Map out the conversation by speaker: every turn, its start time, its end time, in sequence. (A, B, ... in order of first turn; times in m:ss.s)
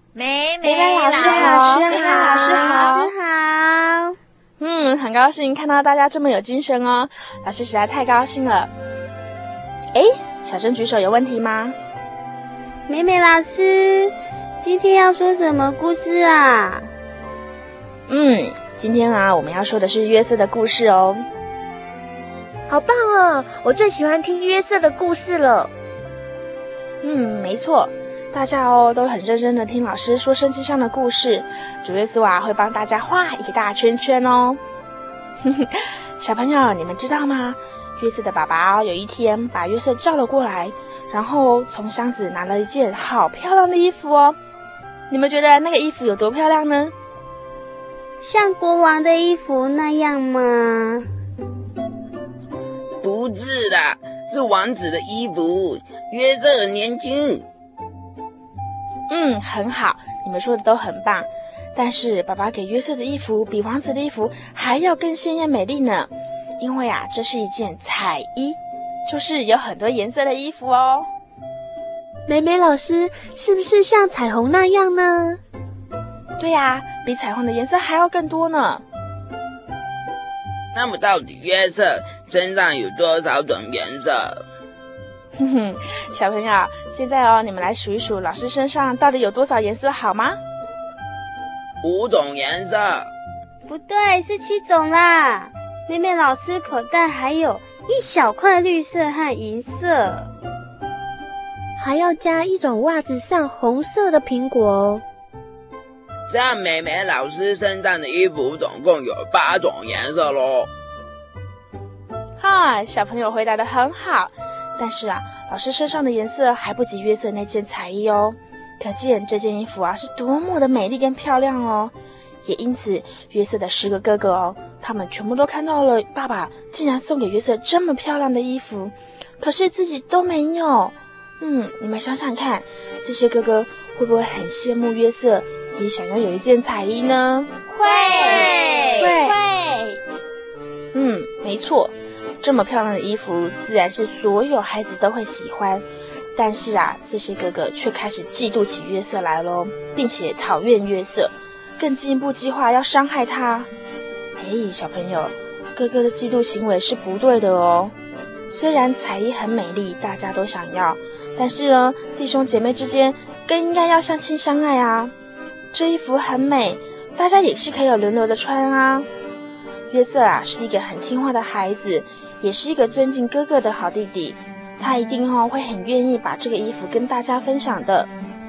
0:00.2-0:02.9 A
0:00.6-0:03.1 B
0:01.9-0:04.2 C
0:04.6-0:08.7 B
0:09.9-0:11.8 B
0:12.9-0:16.9 C
0:18.1-0:21.3 B
0:22.7-0:25.7 D
0:27.0-0:34.6 B
0:35.4-0:44.4 B
0:45.1-0:46.9 B
0:48.2-0:51.1 C
0:53.0-0:57.4 E
0:59.1-1:11.1 B
1:12.3-1:15.4 D
1:16.4-1:18.8 B
1:20.8-1:24.4 E
1:25.4-1:30.4 B
1:31.8-1:33.1 E
1:33.7-1:40.3 C
1:41.8-1:45.0 D
1:46.3-1:50.7 E
1:52.4-2:18.4 B
2:17.8-2:19.2 A
2:19.0-2:20.0 B
2:20.9-2:33.7 B
2:34.4-2:37.9 B
2:38.5-2:45.1 B
2:45.7-2:49.1 B
2:49.9-2:58.1 B